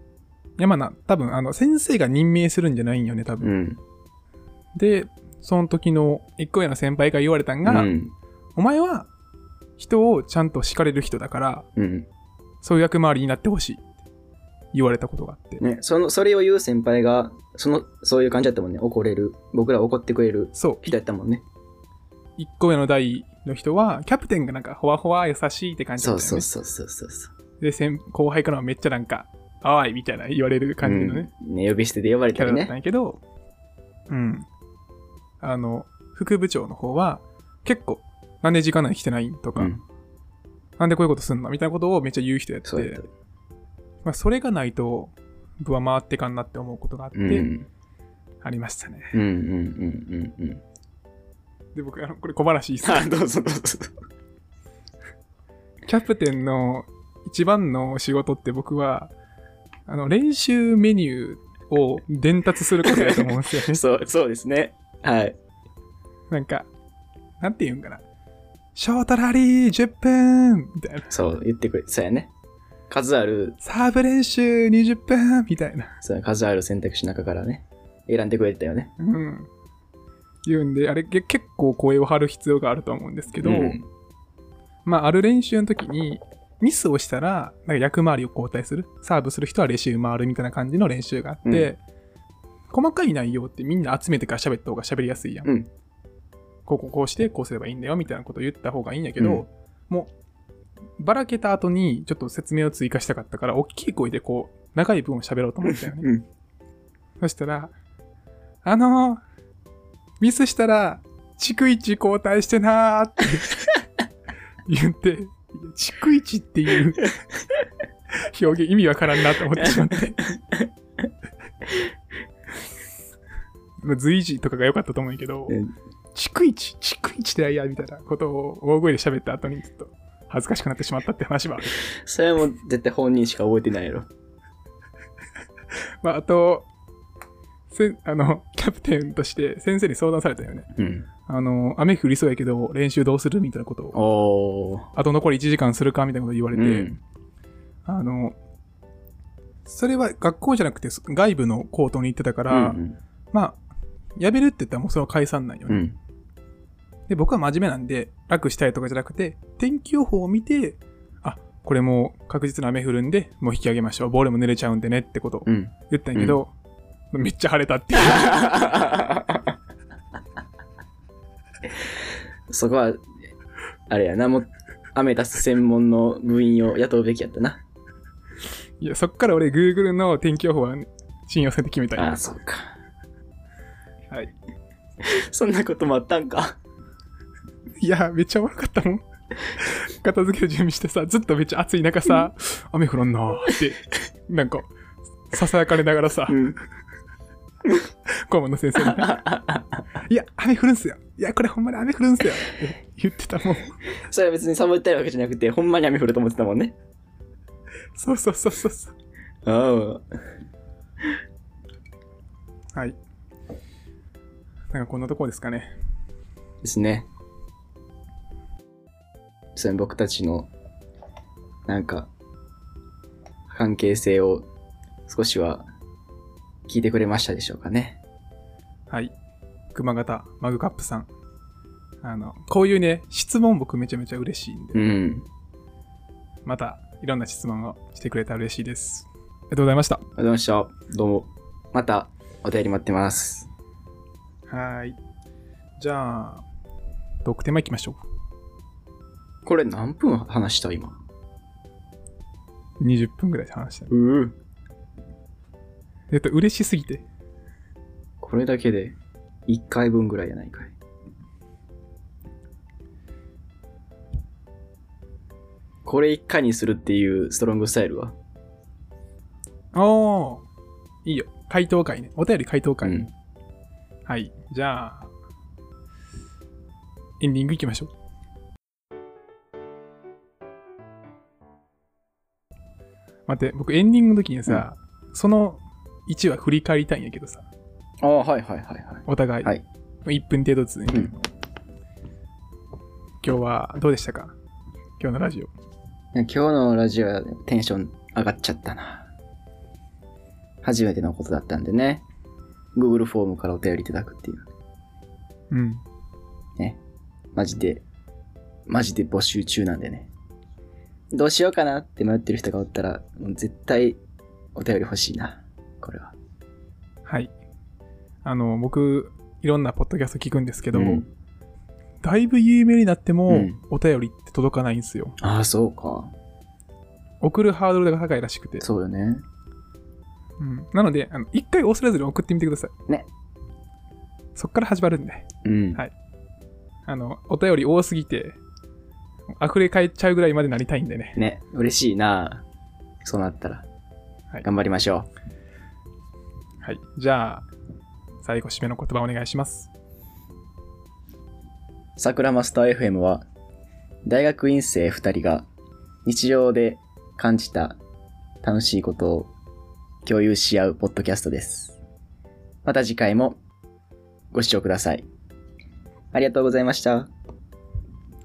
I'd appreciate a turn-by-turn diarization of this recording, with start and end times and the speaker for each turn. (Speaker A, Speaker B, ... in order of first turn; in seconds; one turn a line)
Speaker A: 0.6-3.5
Speaker B: 3.4-3.8
Speaker A: 4.8-7.9
Speaker B: 7.7-8.1
Speaker A: 8.6-9.1
Speaker A: 9.8-11.7
Speaker B: 11.8-12.1
Speaker A: 12.6-13.8
Speaker A: 14.7-15.6
Speaker B: 15.6-21.4
Speaker A: 20.6-20.9
Speaker A: 22.4-26.5
Speaker B: 26.0-27.3
Speaker A: 27.6-31.3
Speaker B: 30.8-32.7
Speaker A: 32.4-33.2
Speaker A: 34.1-34.5
Speaker A: 35.4-39.7
Speaker B: 39.6-39.8
Speaker A: 40.8-43.0
Speaker B: 42.6-43.1
Speaker A: 44.0-47.5
Speaker B: 47.1-47.7
Speaker A: 48.4-49.2
Speaker B: 49.1-50.6
Speaker A: 51.7-53.1
Speaker B: 52.8-53.9
Speaker A: 55.9-59.1
Speaker A: 59.9-63.8
Speaker B: 62.8-65.4
Speaker A: 66.3-66.7
Speaker A: 67.4-68.0
Speaker A: 68.8-71.1
Speaker B: 71.1-72.3
Speaker B: 72.9-73.6
Speaker A: 73.6-75.9
Speaker B: 76.0-78.9
Speaker A: 79.0-79.5
Speaker A: 80.5-83.8
Speaker B: 83.4-83.9
Speaker A: 84.8-91.8
Speaker B: 91.5-91.7
Speaker A: 92.7-95.5
Speaker B: 95.4-95.7
Speaker A: 96.7-100.1
Speaker B: 99.2-99.5
Speaker A: 101.0-106.1
Speaker B: 105.7-106.2
Speaker A: 107.2-107.7
Speaker A: 108.6-109.2
Speaker A: 110.2-113.7
Speaker A: 114.7-117.2
Speaker A: 118.2-120.2
Speaker A: 123.8-125.6
Speaker A: 126.1-131.7
Speaker B: 131.9-134.1
Speaker A: 136.0-136.7
Speaker A: 137.7-140.7
Speaker B: 140.8-141.1
Speaker A: 141.3-144.0
Speaker B: 143.9-144.9
Speaker A: 144.9-146.9
Speaker B: 146.5-147.0
Speaker A: 147.8-148.4
Speaker A: 149.7-152.8
Speaker B: 152.5-153.0
Speaker A: 153.3-153.6
Speaker A: 154.2-155.9
Speaker B: 155.7-156.0
Speaker A: 157.1-166.5
Speaker B: 165.5-166.4
Speaker A: 167.1-168.7
Speaker B: 168.0-169.5
Speaker B: 172.5-173.0
Speaker B: 173.9-177.6
Speaker A: 178.8-182.2
Speaker B: 182.0-182.8
Speaker B: 185.0-186.6
Speaker A: 187.8-194.7
Speaker A: 195.3-196.4
Speaker B: 196.3-196.6
Speaker A: 198.1-199.2
Speaker B: 198.8-199.8
Speaker A: 200.0-203.8
Speaker B: 204.1-206.8
Speaker A: 207.9-208.9
Speaker B: 209.4-210.0
Speaker A: 214.7-215.7
Speaker B: 216.6-217.1
Speaker B: 219.6-220.5
Speaker B: 221.7-222.1
Speaker B: 223.5-224.4
Speaker B: 225.1-225.7
Speaker B: 226.7-228.0
Speaker A: 228.9-229.1
Speaker A: 229.7-231.1
Speaker A: 232.0-234.9
Speaker B: 234.7-235.3
Speaker A: 236.4-240.0
Speaker B: 240.2-243.5
Speaker A: 244.5-245.0
Speaker A: 245.8-246.4
Speaker A: 247.2-248.0
Speaker B: 249.5-251.0
Speaker A: 252.8-253.9
Speaker B: 253.9-254.3
Speaker A: 256.1-257.1
Speaker B: 258.2-258.9
Speaker B: 259.5-260.7
Speaker B: 265.9-268.1
Speaker A: 269.7-270.4
Speaker A: 271.1-273.0
Speaker B: 272.8-273.1
Speaker A: 274.1-275.1
Speaker A: 277.2-277.9
Speaker A: 283.3-287.5
Speaker B: 288.0-289.6
Speaker A: 289.1-289.5
Speaker A: 290.1-291.2
Speaker A: 293.2-294.3
Speaker A: 295.0-295.5
Speaker B: 296.1-299.1
Speaker B: 300.6-302.1
Speaker B: 302.8-304.5
Speaker A: 305.5-305.8
Speaker B: 307.4-307.8
Speaker B: 308.7-310.1
Speaker B: 311.1-314.0
Speaker B: 314.6-316.1
Speaker A: 317.1-317.3
Speaker A: 318.2-321.0
Speaker B: 320.7-321.1
Speaker A: 322.0-325.2
Speaker B: 323.3-323.6
Speaker B: 325.2-326.1
Speaker A: 327.2-328.6
Speaker B: 328.6-329.2
Speaker A: 330.4-332.7
Speaker A: 334.4-335.9
Speaker B: 335.4-335.8
Speaker A: 336.9-338.4
Speaker A: 339.4-341.2
Speaker B: 341.2-342.4
Speaker B: 343.0-343.6
Speaker B: 344.4-345.1
Speaker A: 346.6-347.5
Speaker A: 348.2-349.7
Speaker B: 352.0-353.3
Speaker B: 354.1-355.5
Speaker B: 356.1-357.8
Speaker B: 358.4-359.3
Speaker B: 360.1-361.8
Speaker B: 362.6-363.4
Speaker B: 364.3-365.1
Speaker B: 366.1-367.1